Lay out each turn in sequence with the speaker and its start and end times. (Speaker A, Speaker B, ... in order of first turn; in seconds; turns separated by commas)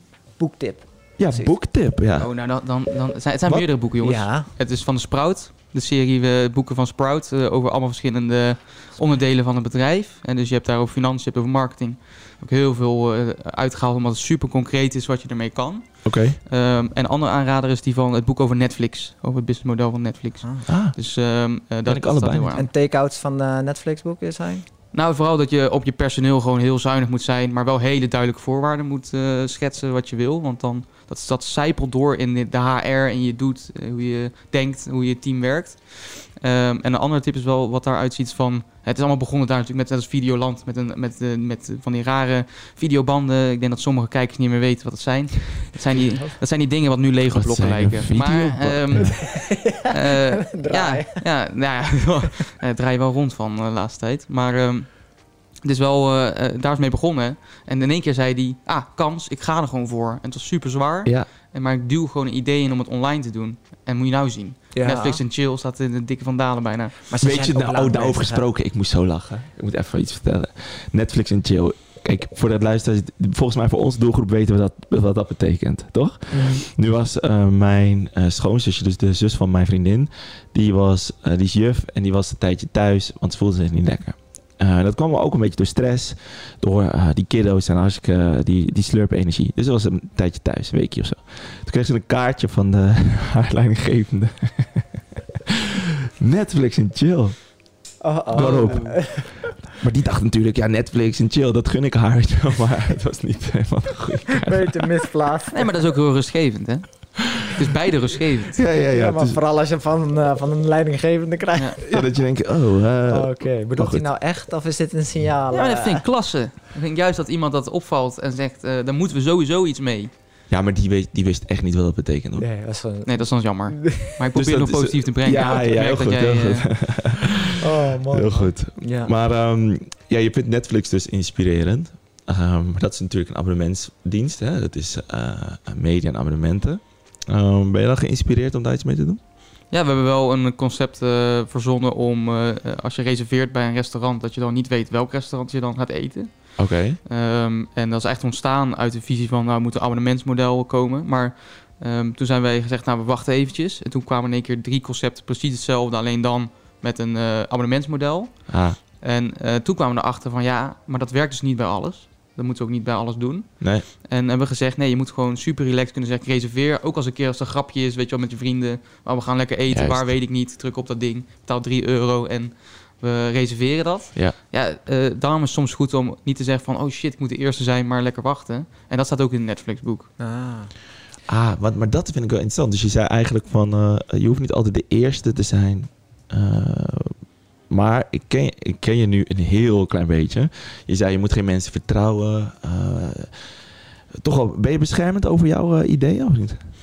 Speaker A: 0.4-1.5, Speaker B: 1.2-2.3, Speaker C: 2.2-22.7, Speaker A: 4.0-4.5, Speaker B: 16.0-16.4, Speaker B: 20.7-21.0, Speaker B: 21.8-22.5, Speaker A: 22.6-24.6, Speaker C: 24.9-55.1, Speaker B: 47.3-49.2, Speaker A: 49.0-51.3, Speaker C: 55.6-67.0, Speaker A: 64.7-65.2, Speaker A: 67.1-68.4, Speaker B: 67.2-97.4, Speaker A: 76.3-76.6, Speaker A: 98.0-99.5, Speaker B: 98.3-104.9, Speaker C: 98.3-99.0, Speaker A: 104.3-105.8, Speaker C: 105.5-108.6, Speaker B: 108.5-109.4, Speaker A: 108.9-112.1, Speaker B: 111.9-114.1, Speaker A: 113.1-116.0, Speaker C: 115.5-120.1, Speaker B: 120.5-122.5, Speaker A: 122.4-124.2, Speaker C: 123.0-126.7, Speaker B: 124.3-127.6, Speaker A: 125.4-125.6, Speaker A: 127.6-129.1, Speaker B: 128.1-139.2, Speaker C: 139.7-180.1, Speaker B: 146.6-147.0, Speaker B: 158.5-158.8, Speaker B: 163.6-163.9, Speaker B: 169.7-170.1, Speaker A: 180.2-180.7, Speaker B: 181.3-187.2, Speaker B: 187.7-193.5, Speaker B: 194.2-196.6